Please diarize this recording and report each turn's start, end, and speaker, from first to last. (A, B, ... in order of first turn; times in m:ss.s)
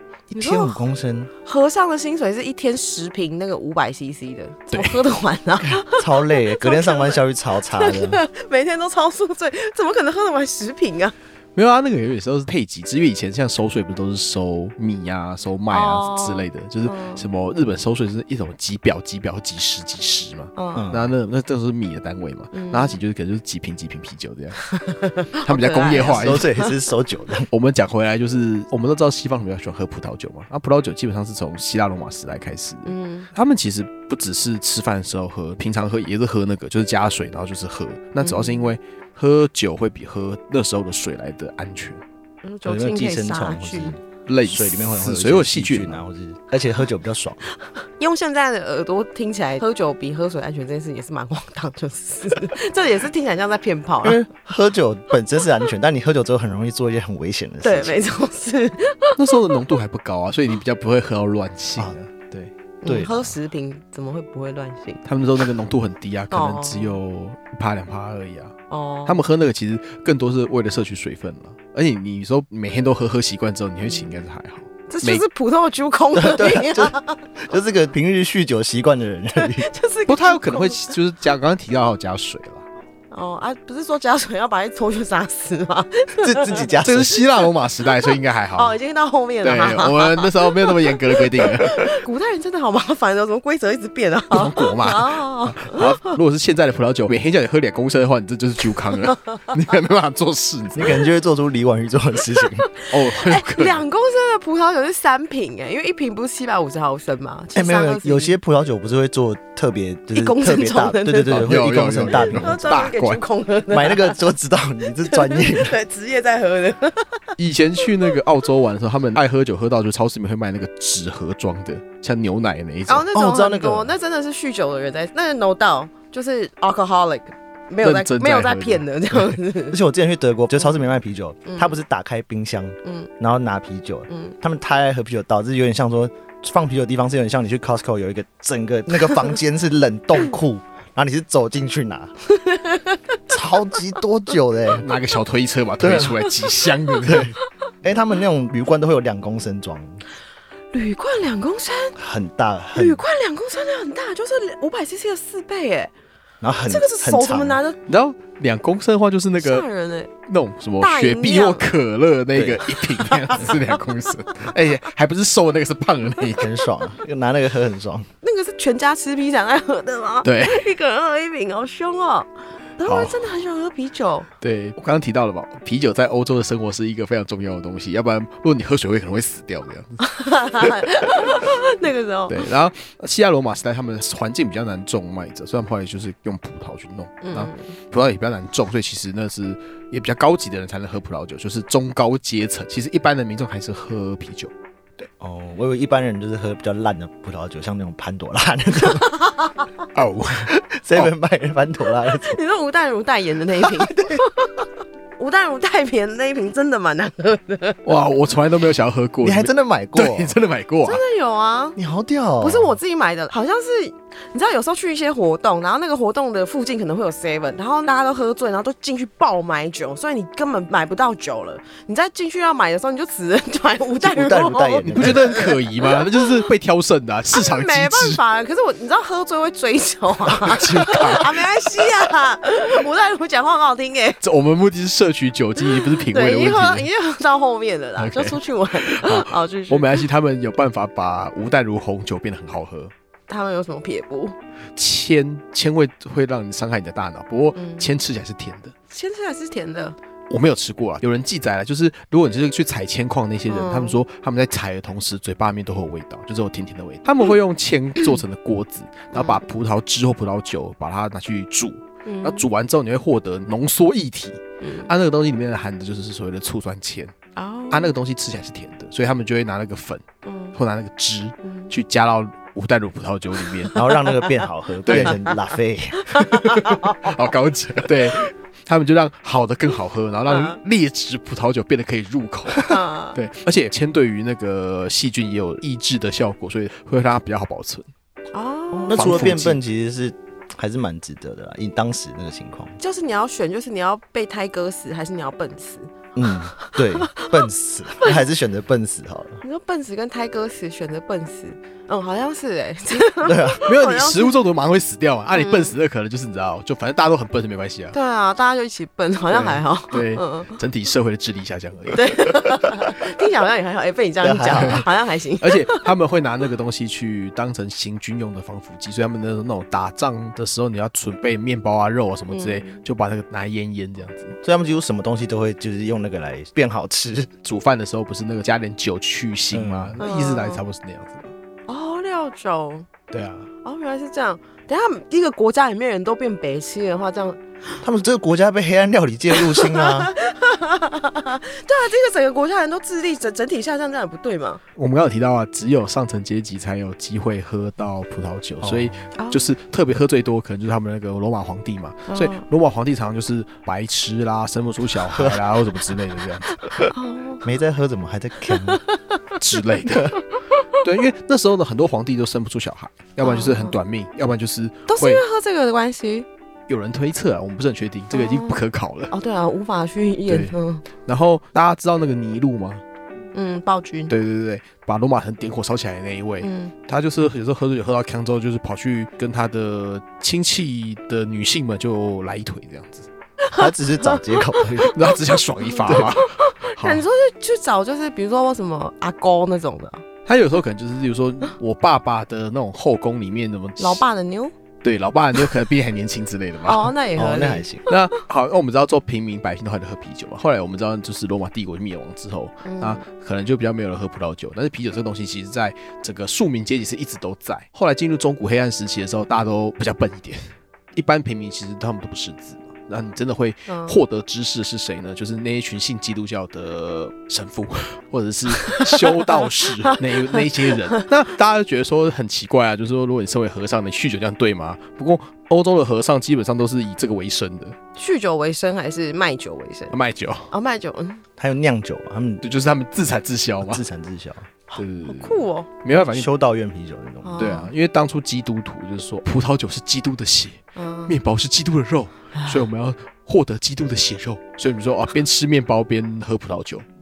0:00.3-0:01.3 A
0:00.3-0:00.8 B
0:01.4-0:07.2 B
0:04.7-0:05.0 C
0:05.7-0:08.2 A
0:07.7-0:11.1 B
0:11.6-0:24.7 C
0:15.7-0:17.2 B
0:20.6-0:20.9 B
0:20.8-0:21.1 A
0:22.5-0:23.0 B
0:24.7-0:26.7 B
0:25.4-0:26.5 C
0:26.0-0:27.5 A
0:27.5-0:42.0 C
0:32.8-0:33.3 B
0:38.2-0:38.7 B
0:42.4-0:43.9 B
0:42.6-0:47.4 A
0:44.3-0:46.0 C
0:47.8-0:54.2 B
0:54.0-0:58.0 A
0:57.6-0:59.6 B
0:59.2-1:02.5 C
1:02.8-1:05.0 B
1:02.8-1:03.3 A
1:05.0-1:08.5 C
1:06.3-1:07.0 B
1:08.7-1:09.2 B
1:09.0-1:15.2 C
1:13.8-1:14.1 B
1:14.9-1:17.2 B
1:16.1-1:19.7 A
1:19.4-1:20.9 B
1:20.1-1:22.6 C
1:23.1-1:26.7 B
1:26.2-1:27.2 A
1:26.8-1:28.8 C
1:28.6-1:36.2 B
1:29.4-1:32.0 C
1:34.3-1:41.0 C
1:40.8-1:42.7 A
1:42.8-1:48.4 B
1:42.9-1:43.8 C
1:47.5-1:52.8 A
1:50.1-1:51.5 B
1:51.3-1:53.2 C
1:52.1-1:54.2 B
1:53.7-1:55.8 A
1:55.0-1:57.3 B
1:57.4-2:03.1 C
2:02.9-2:09.8 B
2:03.1-2:03.9 A
2:07.8-2:09.4 C
2:09.7-2:22.1 A
2:11.4-2:11.8 B
2:12.8-2:13.1 B
2:14.1-2:14.3 B
2:22.3-2:23.2 B
2:23.3-2:24.9 A
2:24.8-2:27.4 C
2:25.8-2:26.2 A
2:27.0-2:27.3 A
2:27.8-2:30.0 A
2:30.7-2:32.0 B
2:32.0-2:33.0 A
2:32.8-2:35.9 B
2:36.4-2:37.6 A
2:36.6-2:37.8 B
2:37.9-2:39.6 C
2:39.4-2:40.1 B
2:40.3-2:46.5 C
2:40.8-2:41.7 B
2:42.3-2:42.6 A
2:43.0-2:43.6 B
2:46.3-2:48.1 A
2:48.2-2:54.3 B
2:50.2-2:50.7 C
2:52.8-2:53.2 C
2:54.4-3:00.0 C
3:00.0-3:02.4 B
3:00.6-3:01.4 C
3:02.3-3:14.5 C
3:07.2-3:07.7 B
3:15.0-3:19.1 A
3:18.9-3:19.7 B
3:19.9-3:21.1 C
3:20.4-3:22.4 A
3:22.1-3:27.8 B
3:23.6-3:24.2 A
3:27.8-3:31.0 C
3:29.2-3:30.4 A
3:30.8-3:31.8 B
3:31.8-3:32.8 A
3:32.4-3:46.4 B
3:44.0-3:45.4 A
3:44.8-3:48.2 C
3:47.3-3:54.2 B
3:50.3-3:51.8 C
3:54.2-3:56.9 C
3:55.6-4:00.0 B
3:58.0-4:02.9 C
4:03.3-4:04.4 B
4:04.8-4:08.7 C
4:07.5-4:07.9 B
4:08.9-4:10.0 B
4:10.3-4:27.1 C
4:13.5-4:14.0 B
4:19.1-4:19.4 B
4:22.0-4:22.5 B
4:24.6-4:24.9 B
4:27.4-4:27.9 B
4:27.7-4:30.0 C
4:30.2-4:30.6 B
4:30.5-4:33.8 C
4:31.4-4:31.7 B
4:33.6-4:34.1 B
4:33.7-4:36.2 A
4:34.9-4:35.2 C
4:34.9-4:35.4 B
4:36.0-4:37.1 B
4:36.2-4:47.9 C
4:40.3-4:40.6 B
4:42.6-4:43.2 B
4:48.3-4:49.3 B
4:48.8-4:52.8 A
4:48.9-4:49.6 C
4:52.8-4:55.9 B
4:56.1-4:59.4 A
4:56.6-4:57.4 B
4:59.4-5:04.4 B
5:03.2-5:03.6 A
5:03.6-5:07.9 C
5:05.3-5:05.7 B
5:07.9-5:10.6 B
5:09.3-5:12.6 C
5:11.9-5:15.8 B
5:14.2-5:14.9 A
5:14.5-5:14.9 C
5:15.4-5:24.4 C
5:22.3-5:22.8 B
5:24.4-5:27.3 A
5:27.4-5:31.3 C
5:29.5-5:30.0 A
5:30.0-5:30.6 B
5:31.7-5:32.9 B
5:33.1-5:33.5 C
5:33.6-5:37.4 B
5:37.8-5:40.1 A
5:39.4-5:44.6 B
5:44.8-5:56.5 C
5:48.6-5:48.9 A
5:49.2-5:49.5 B
5:52.1-5:52.4 B
5:55.1-5:55.4 A
5:56.5-5:57.4 B
5:57.4-5:58.8 A
5:58.5-5:59.4 B
5:59.4-6:00.2 C
6:00.7-6:05.2 C
6:03.2-6:03.8 B
6:04.9-6:06.2 B
6:06.7-6:09.1 C
6:08.1-6:08.6 B
6:09.1-6:10.8 B
6:10.3-6:12.8 C
6:13.3-6:14.1 B
6:14.1-6:23.1 C
6:16.4-6:16.7 B
6:23.4-6:30.0 B
6:23.6-6:25.0 A
6:24.9-6:27.0 C
6:30.2-6:34.0 C
6:33.8-6:34.5 B
6:34.8-6:36.9 C
6:36.6-6:37.9 B
6:37.2-6:37.8 A
6:37.9-7:07.8 C
6:42.6-6:43.0 B
6:53.7-6:54.0 B
6:58.6-7:01.0 B
7:08.0-7:09.9 B
7:09.9-7:10.5 C
7:10.5-7:11.2 B
7:11.4-7:12.4 A
7:12.4-7:13.8 C
7:13.6-7:14.5 A
7:14.7-7:15.7 B
7:14.8-7:16.3 C
7:16.1-7:17.6 A
7:17.2-7:17.7 B
7:17.4-7:26.8 C
7:20.8-7:21.2 B
7:22.3-7:22.6 B